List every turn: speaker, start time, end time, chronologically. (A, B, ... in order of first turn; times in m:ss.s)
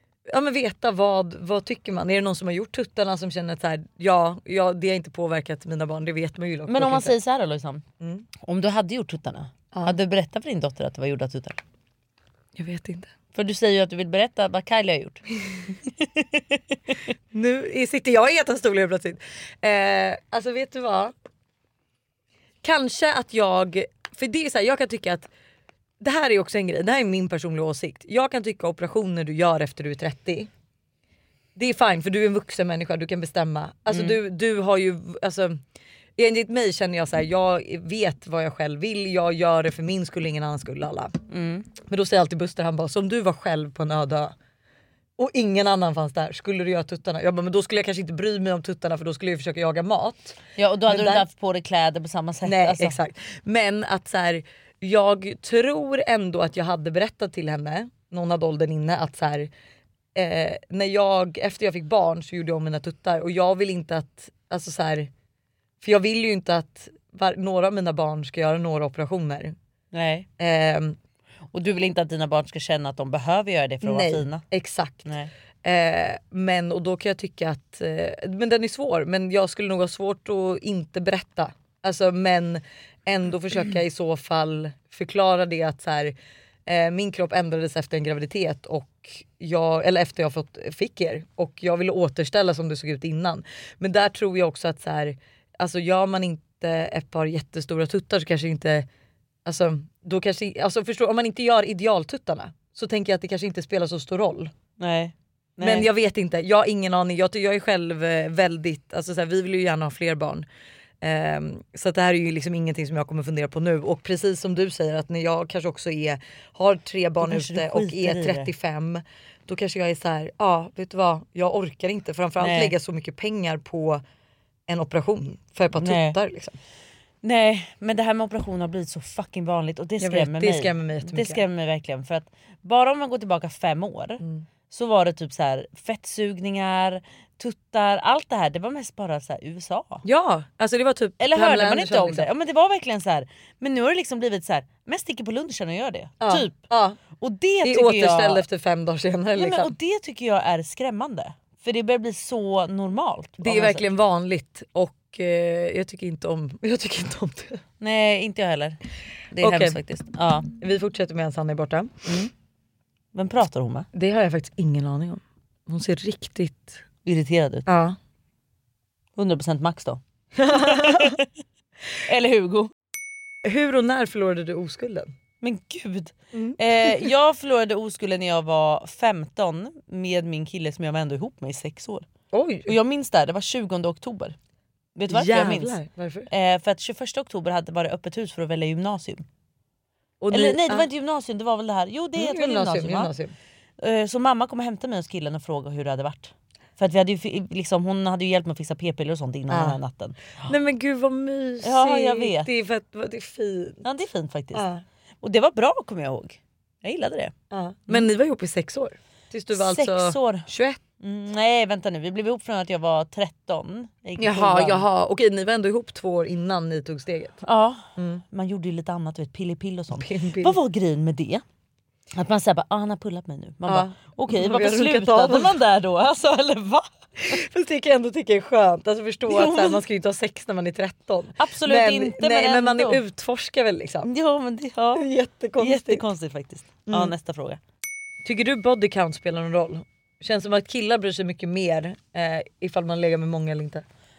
0:00.3-0:07.1 A
0:06.7-0:07.8 B
0:08.4-0:11.6 B
0:12.6-0:13.1 A
0:13.4-0:15.2 B
0:16.0-0:16.6 B
0:17.3-0:21.1 A
0:22.6-0:25.3 A
0:26.0-0:30.5 A
0:31.6-0:35.6 A
0:33.9-0:34.2 B
0:36.2-0:41.2 A
0:41.3-0:41.7 B
0:41.8-0:44.3 A
0:45.2-0:51.2 A
0:50.6-0:53.0 B
0:52.4-0:59.5 A
1:00.2-1:05.1 A
1:05.8-1:09.5 A
1:09.9-1:10.3 B
1:10.4-1:11.0 A
1:11.5-1:14.4 B
1:13.8-1:15.0 A
1:15.0-1:15.3 B
1:15.6-1:26.1 A
1:26.7-1:38.9 A
1:39.5-1:44.5 A
1:44.8-1:45.9 B
1:45.6-1:50.5 A
1:51.0-2:04.0 A
1:57.2-1:58.5 B
2:02.4-2:02.7 B
2:04.7-2:06.6 A
2:05.8-2:06.2 B
2:07.2-2:20.0 B
2:10.0-2:11.4 A
2:20.0-2:22.3 A
2:21.2-2:26.6 B
2:26.2-2:27.0 A
2:27.2-2:28.4 B
2:27.6-2:29.7 A
2:29.4-2:33.9 B
2:33.4-2:37.6 A
2:37.8-2:38.8 B
2:39.3-2:40.5 B
2:39.4-2:39.8 A
2:40.6-2:42.1 A
2:43.1-2:43.9 B
2:43.9-2:46.8 A
2:47.0-2:47.7 B
2:47.7-2:48.0 A
2:49.2-2:51.2 B
2:50.4-2:51.2 A
2:52.0-2:52.7 B
2:53.4-2:55.1 A
2:55.4-3:02.1 B
2:56.3-2:57.1 A
3:02.3-3:02.7 A
3:02.7-3:04.4 B
3:05.0-3:05.8 B
3:05.1-3:06.3 A
3:06.3-3:09.3 B
3:10.2-3:10.9 A
3:10.3-3:13.1 B
3:12.2-3:13.3 A
3:13.8-3:20.2 B
3:19.5-3:19.8 A
3:20.4-3:23.8 A
3:21.6-3:22.5 B
3:23.8-3:24.6 B
3:24.5-3:24.8 A
3:25.2-3:27.3 B
3:27.5-3:30.8 A
3:29.5-3:30.5 B
3:31.0-3:34.8 B
3:34.2-3:37.4 A
3:37.4-3:41.4 B
3:38.0-3:38.2 A
3:40.0-3:40.6 A
3:42.1-3:47.3 B
3:43.7-3:45.6 A
3:47.2-3:54.1 A
3:49.3-3:49.8 B
3:51.4-3:53.0 B
3:54.0-3:55.1 B
3:55.0-3:56.0 A
3:55.6-3:57.6 B
3:56.9-3:57.1 A
3:58.2-4:03.8 A